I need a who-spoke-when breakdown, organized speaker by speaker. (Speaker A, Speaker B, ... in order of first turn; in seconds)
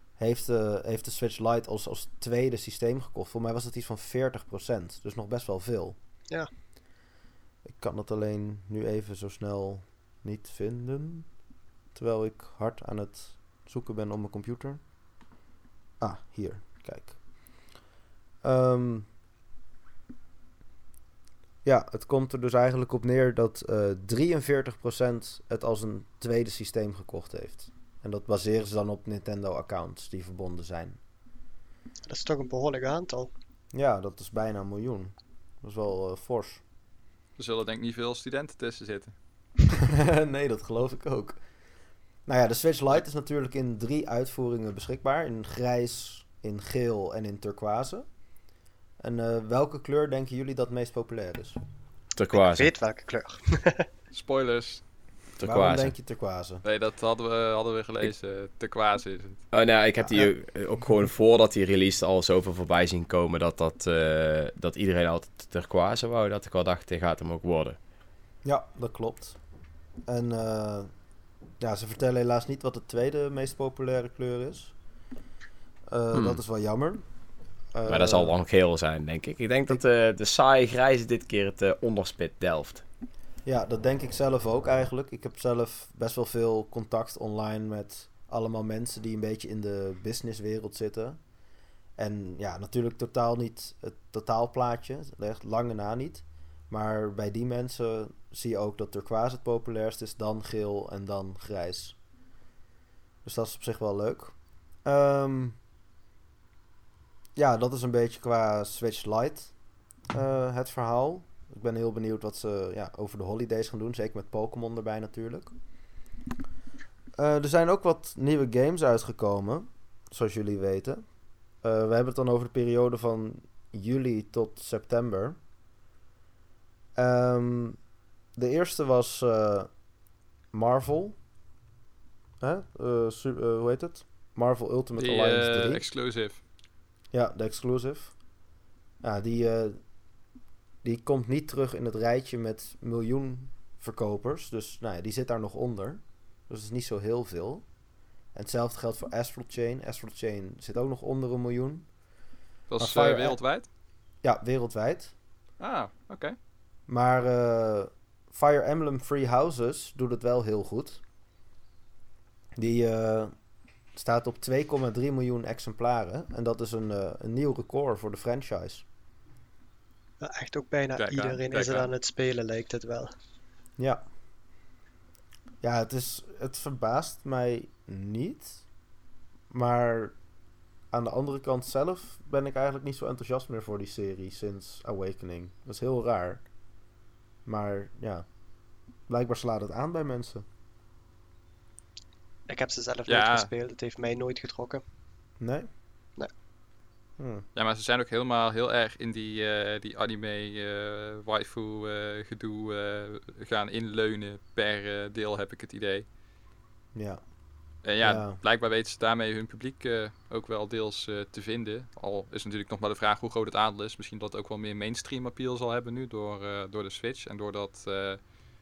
Speaker A: 0.2-6.0, 7.7-11.3, 11.9-14.8, 16.0-17.2, 18.4-19.1, 21.6-31.0, 33.7-36.6, 39.9-41.4, 42.3-48.1, 49.0-51.6, 55.4-56.6, 60.0-60.3, 68.5-69.4, 70.1-70.9, 71.6-74.7, 75.9-77.0, 77.7-78.3, 83.5-91.2, 92.0-102.0, 103.2-105.6, 107.4-109.5, 110.1-115.5, 117.2-121.0, 121.6-125.4, 127.0-127.8, 128.3-129.8, 130.5-131.2, 132.4-135.8, 137.1-138.2, 139.0-139.8, 140.8-147.7, 148.3-151.9, 152.8-153.4, 154.2-155.1, 156.9-161.0, 162.6-163.3, 163.9-168.8, 173.8-174.0, 175.6-178.7, 179.5-180.2, 180.9-186.4, 187.5-188.3, 189.1-190.4, 195.4-195.7, 197.2-197.4, 206.9-207.2, 208.0-208.4
Speaker B: 32.1-33.3, 52.3-53.9, 170.2-173.1, 192.5-194.8
Speaker C: 37.4-39.1, 54.1-54.9, 56.6-59.4, 135.0-136.4, 152.7-153.7, 155.6-156.3, 171.0-171.9, 193.1-193.5, 197.6-206.1, 207.8-218.2
Speaker D: 52.2-52.7, 55.4-55.9, 59.5-67.8, 76.1-76.4, 77.9-82.8